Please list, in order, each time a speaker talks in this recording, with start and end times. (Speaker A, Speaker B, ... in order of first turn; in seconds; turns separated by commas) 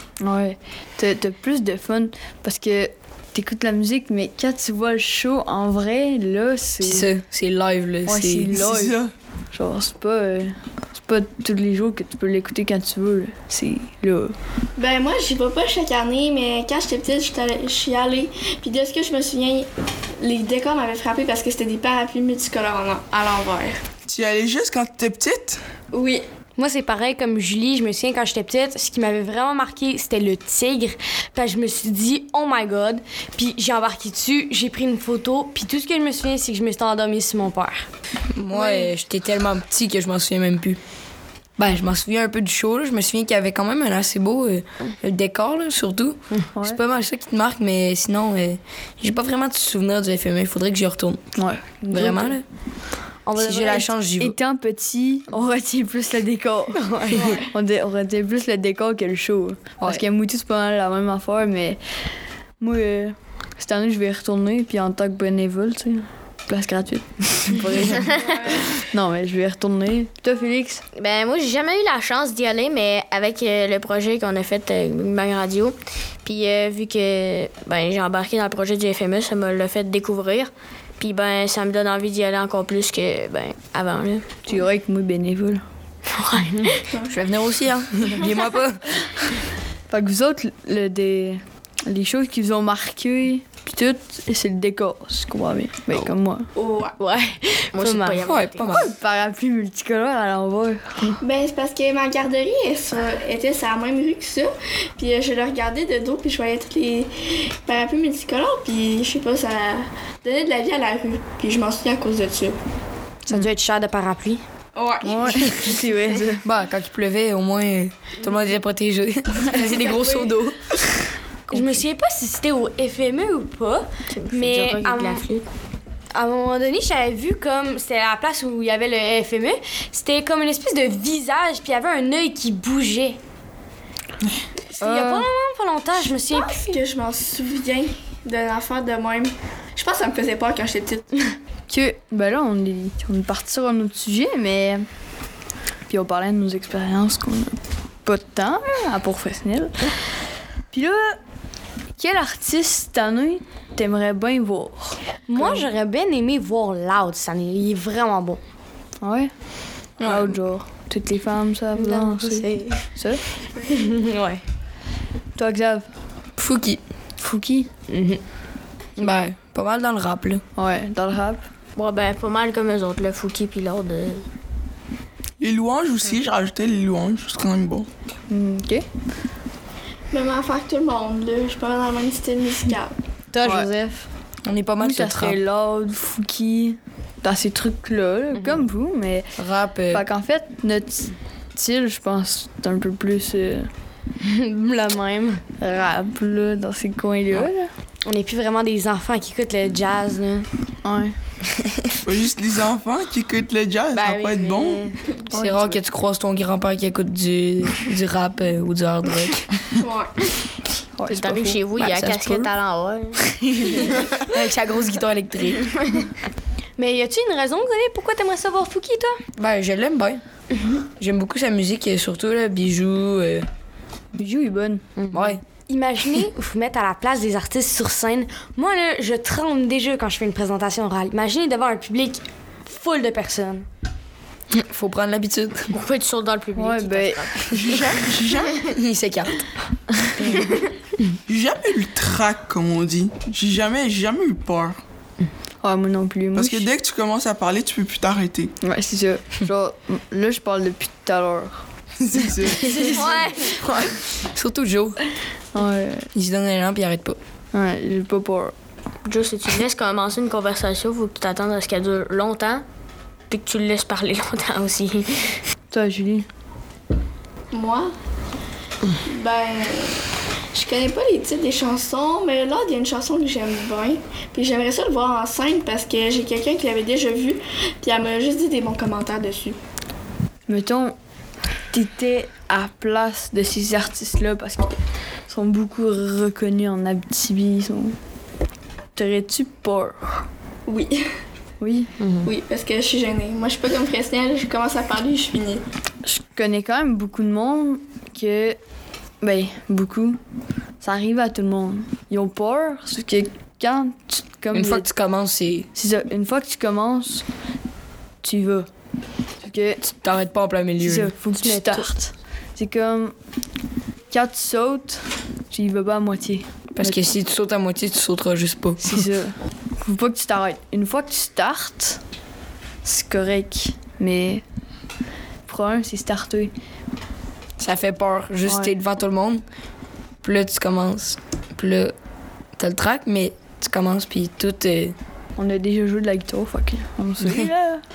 Speaker A: 0.2-7.1, Speaker B: 6.8-8.6, Speaker A: 8.1-9.0, Speaker C: 8.5-9.1, Speaker A: 9.5-14.3, Speaker D: 14.8-19.7, Speaker D: 20.2-23.8, Speaker C: 24.1-25.6, Speaker E: 26.6-37.9, Speaker B: 38.4-40.8, Speaker E: 38.5-38.9, Speaker B: 41.6-51.3, Speaker A: 51.4-52.4, Speaker B: 51.9-52.4, Speaker E: 53.3-53.9, Speaker B: 53.4-54.4, Speaker A: 54.2-61.8, Speaker E: 56.7-57.4, Speaker D: 57.2-57.5, Speaker A: 62.6-70.8, Speaker D: 68.2-68.6, Speaker F: 71.0-84.4, Speaker A: 84.5-85.6, Speaker F: 86.2-86.6, Speaker E: 86.5-86.7, Speaker D: 86.9-87.2, Speaker B: 87.1-89.0, Speaker A: 89.9-96.5, Speaker D: 96.6-96.9, Speaker E: 97.0-98.2, Speaker F: 97.7-98.7, Speaker B: 98.2-98.9, Speaker A: 98.7-101.2, Speaker D: 101.2-112.6, Speaker E: 113.3-114.4, Speaker D: 114.8-115.8, Speaker A: 115.0-116.4, Speaker B: 116.4-120.7, Speaker D: 119.5-120.3, Speaker B: 121.5-121.8, Speaker E: 121.5-125.2, Speaker F: 124.1-125.5, Speaker E: 126.1-133.2, Speaker E: 134.7-136.8, Speaker A: 134.8-135.3, Speaker D: 136.3-141.2, Speaker A: 141.7-144.8, Speaker A: 145.9-149.9, Speaker A: 150.7-151.2, Speaker A: 152.0-155.7, Speaker E: 155.3-158.4, Speaker A: 159.0-159.3, Speaker B: 160.0-160.3, Speaker A: 160.0-163.2, Speaker E: 161.8-162.8, Speaker E: 163.7-164.4, Speaker A: 165.4-165.9, Speaker B: 166.4-166.8, Speaker A: 167.2-167.7, Speaker E: 167.9-168.2, Speaker B: 169.0-170.4, Speaker A: 170.6-171.4, Speaker F: 171.8-174.2, Speaker C: 175.4-177.9, Speaker A: 178.3-178.8, Speaker D: 180.1-182.9, Speaker E: 183.3-184.1, Speaker A: 183.4-183.7, Speaker B: 184.4-185.4, Speaker A: 184.8-189.3, Speaker E: 188.3-188.6, Speaker B: 189.4-190.0, Speaker A: 189.9-193.7, Speaker E: 194.2-195.4, Speaker A: 195.6-197.7, Speaker E: 198.1-200.5, Speaker A: 200.8-201.2, Speaker C: 202.1-204.9, Speaker E: 203.9-204.9, Speaker B: 205.3-209.4, Speaker A: 205.3-205.7, Speaker D: 209.8-210.1, Speaker A: 211.0-211.6, Speaker F: 211.1-214.0, Speaker B: 211.8-212.5, Speaker B: 213.3-215.8, Speaker E: 216.8-219.2, Speaker B: 219.4-220.2, Speaker B: 221.0-223.5, Speaker A: 224.1-224.8, Speaker E: 225.0-233.7, Speaker B: 225.1-225.4, Speaker B: 234.5-235.7, Speaker F: 235.7-237.8, Speaker A: 236.6-237.3, Speaker C: 237.5-238.7, Speaker B: 238.7-239.4, Speaker C: 241.3-244.8, Speaker A: 245.6-246.7, Speaker C: 246.3-248.5, Speaker A: 248.6-251.7, Speaker C: 252.0-253.0, Speaker A: 252.5-253.1, Speaker F: 252.8-253.6, Speaker B: 254.2-255.0, Speaker A: 255.5-256.1, Speaker B: 256.1-257.2, Speaker A: 257.5-258.5, Speaker F: 259.1-262.6, Speaker F: 263.3-265.4, Speaker A: 265.7-266.3, Speaker D: 267.5-267.9, Speaker D: 269.0-279.6, Speaker A: 280.5-281.0, Speaker A: 281.7-284.8, Speaker A: 285.3-288.0, Speaker A: 289.0-290.2, Speaker D: 290.7-291.0, Speaker A: 291.6-291.9, Speaker E: 292.0-292.3, Speaker D: 292.2-295.6, Speaker A: 296.1-298.6, Speaker A: 299.2-300.2, Speaker A: 300.8-304.9, Speaker B: 304.5-305.7, Speaker A: 305.8-307.3, Speaker A: 308.2-308.7, Speaker A: 309.4-309.9, Speaker B: 310.0-311.1, Speaker A: 310.8-313.1, Speaker E: 311.4-311.9, Speaker A: 314.1-317.1, Speaker B: 316.8-319.1, Speaker A: 318.8-322.0, Speaker A: 322.8-324.4, Speaker A: 325.5-326.5, Speaker B: 327.6-329.4, Speaker A: 328.4-328.7, Speaker B: 330.2-331.9, Speaker B: 332.6-335.0, Speaker A: 335.4-337.8